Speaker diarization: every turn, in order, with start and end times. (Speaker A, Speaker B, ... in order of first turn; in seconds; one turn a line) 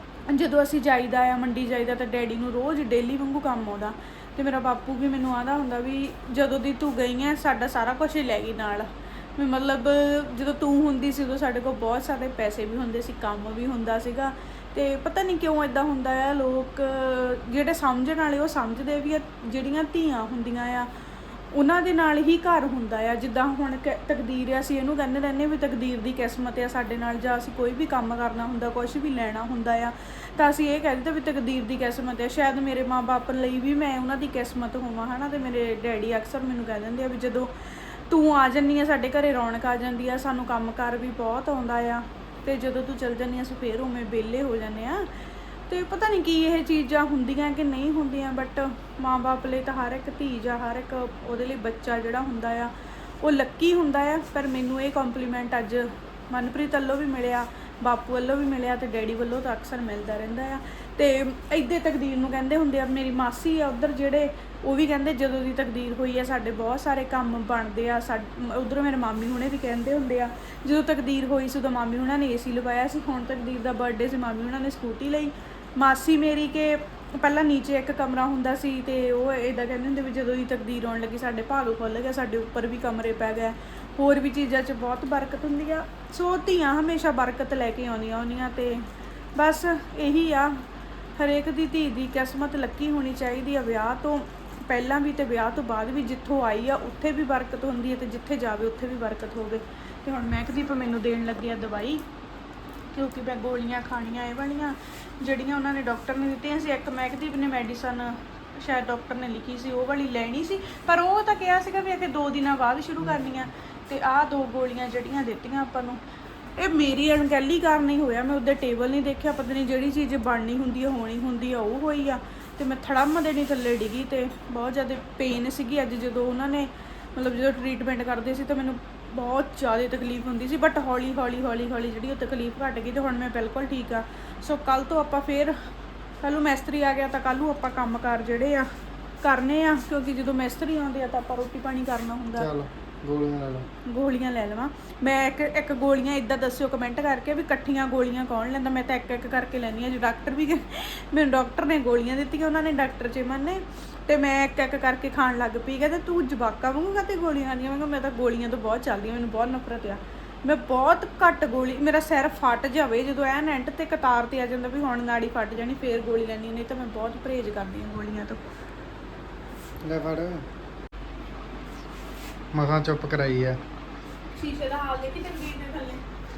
Speaker A: 0.3-20.9
Speaker A: 21.5-45.0
Speaker A: 45.7-52.7
Speaker A: 53.2-88.8
Speaker A: 89.4-90.6
Speaker A: 91.2-102.0
Speaker A: 102.9-116.0
Speaker B: 113.0-113.5
Speaker A: 116.6-135.5
Speaker A: 136.2-138.7
Speaker A: 139.2-142.5
Speaker B: 142.4-143.7
Speaker A: 143.9-168.4
Speaker B: 169.8-170.4
Speaker B: 172.5-173.6
Speaker A: 174.3-176.0